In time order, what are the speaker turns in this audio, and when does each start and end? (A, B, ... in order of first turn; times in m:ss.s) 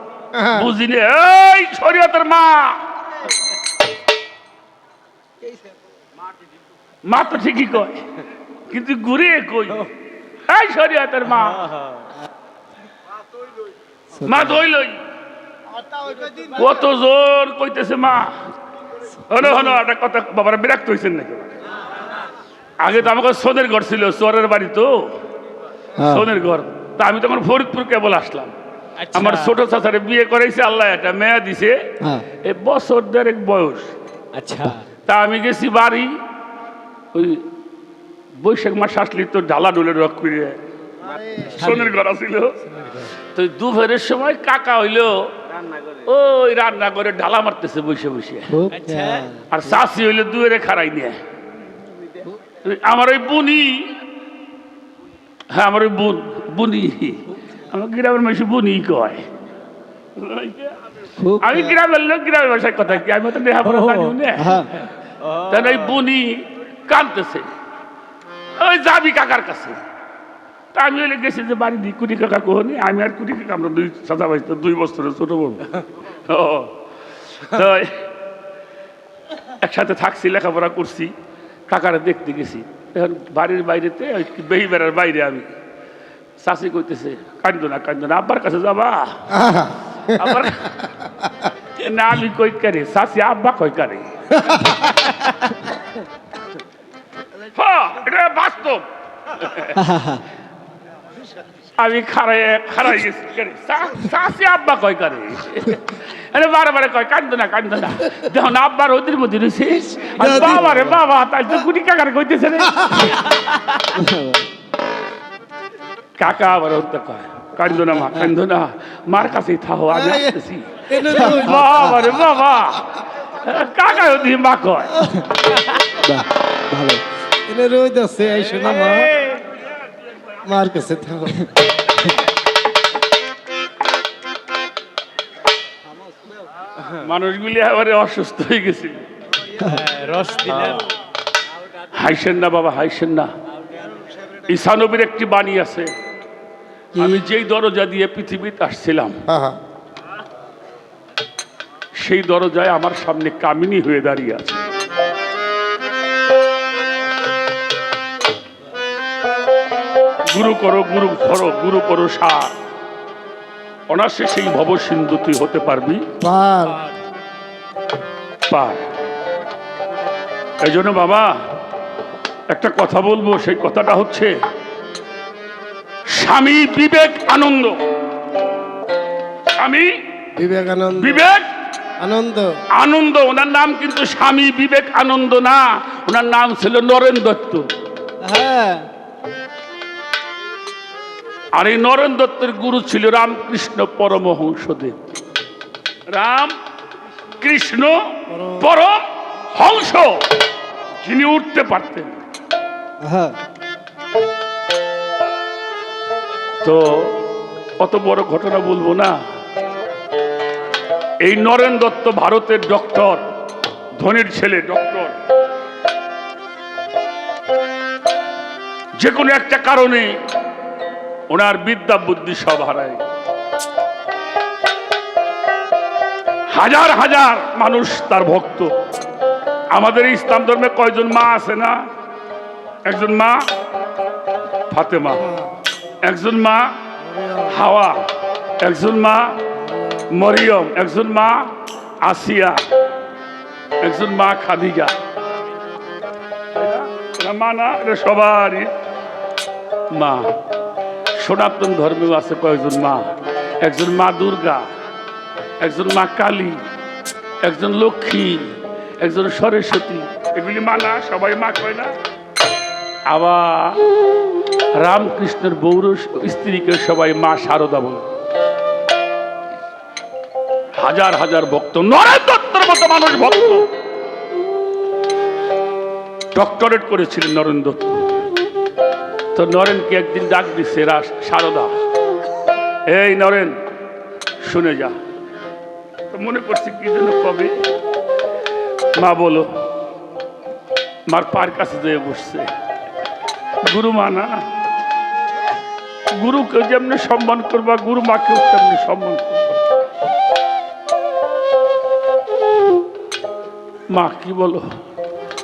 0:00.4-0:00.7 A
0:00.5-0:02.8 B
0:07.0-0:08.1 B
0:08.7-0:09.9 B
0:10.5-0:11.7 B
0:14.2-0:15.0 B
0:16.5-0:18.4 B
0:19.3-0:21.5 B
0:22.8-0:25.1 B
0:26.0-0:28.5 B
0:29.0-0:29.5 C
0:29.1-0:33.9 B
0:34.4-0:34.8 C
0:35.1-0:36.1 B
0:37.1-0:37.4 B
0:38.4-0:40.6 B
0:41.0-0:41.6 A
0:41.5-0:45.3 B
0:45.9-0:48.7 B
0:48.6-0:49.2 A
0:48.7-0:49.4 C
0:49.5-0:51.2 B
0:52.6-0:54.0 B
0:55.5-0:59.3 B
1:00.2-1:07.5 B
1:01.3-1:01.6 A
1:03.8-1:04.1 C
1:08.5-1:09.8 B
1:10.7-1:16.7 B
1:17.4-1:18.0 B
1:19.6-1:21.1 B
1:21.7-1:25.5 B
1:26.4-1:29.4 B
1:29.3-1:29.7 A
1:30.0-1:30.8 B
1:31.8-1:34.3 B
1:37.5-1:39.9 B
1:41.8-1:53.2 B
1:50.1-1:50.6 A
1:54.0-1:54.4 A
1:56.2-2:05.1 B
1:59.9-2:00.4 A
2:00.9-2:02.0 A
2:06.0-2:09.1 A
2:10.4-2:11.5 A
2:16.9-2:19.1 B
2:19.6-2:20.9 C
2:21.9-2:23.3 B
2:24.5-2:25.9 B
2:27.0-2:29.2 B
2:29.3-2:29.6 A
2:31.9-2:34.6 B
2:40.3-2:42.5 B
2:43.9-2:46.0 B
2:46.2-2:46.8 A
2:48.5-2:48.8 B
2:50.6-2:51.3 B
2:52.5-2:54.3 B
2:56.1-2:57.8 B
2:59.6-2:59.9 B
3:00.4-3:01.2 A
3:00.9-3:01.5 B
3:02.0-3:02.5 A
3:02.8-3:07.7 B
3:08.2-3:08.8 A
3:11.5-3:15.0 B
3:16.1-3:16.6 B
3:17.4-3:20.2 B
3:18.3-3:18.6 A
3:21.0-3:22.2 B
3:23.0-3:23.3 A
3:26.6-3:27.2 B
3:27.8-3:29.2 B
3:31.2-3:33.2 B
3:34.0-3:35.1 B
3:39.0-3:40.1 B
3:41.3-3:43.0 B
3:46.5-3:48.7 B
3:49.7-3:51.8 B
3:52.8-3:53.4 B
3:54.7-3:55.3 B
3:56.0-3:56.6 B
3:57.0-3:57.5 A
3:57.4-3:58.1 B
3:58.6-3:59.4 B
3:59.7-4:00.1 A
4:00.1-4:02.6 B
4:03.8-4:05.0 B
4:06.5-4:08.7 B
4:09.9-4:10.3 B
4:11.1-4:13.1 B
4:13.6-4:14.7 B
4:15.6-4:16.6 B
4:17.4-4:21.9 B
4:23.1-4:23.9 B
4:24.8-4:28.1 B
4:30.8-4:33.7 B
4:36.3-4:38.0 B
4:39.3-4:41.7 B
4:42.9-4:43.6 B
4:44.4-4:45.0 B
4:46.1-4:47.5 B
4:48.9-4:49.5 B
4:51.1-4:52.5 B
4:53.6-4:54.4 B
4:56.2-4:59.4 B
5:03.9-5:04.7 B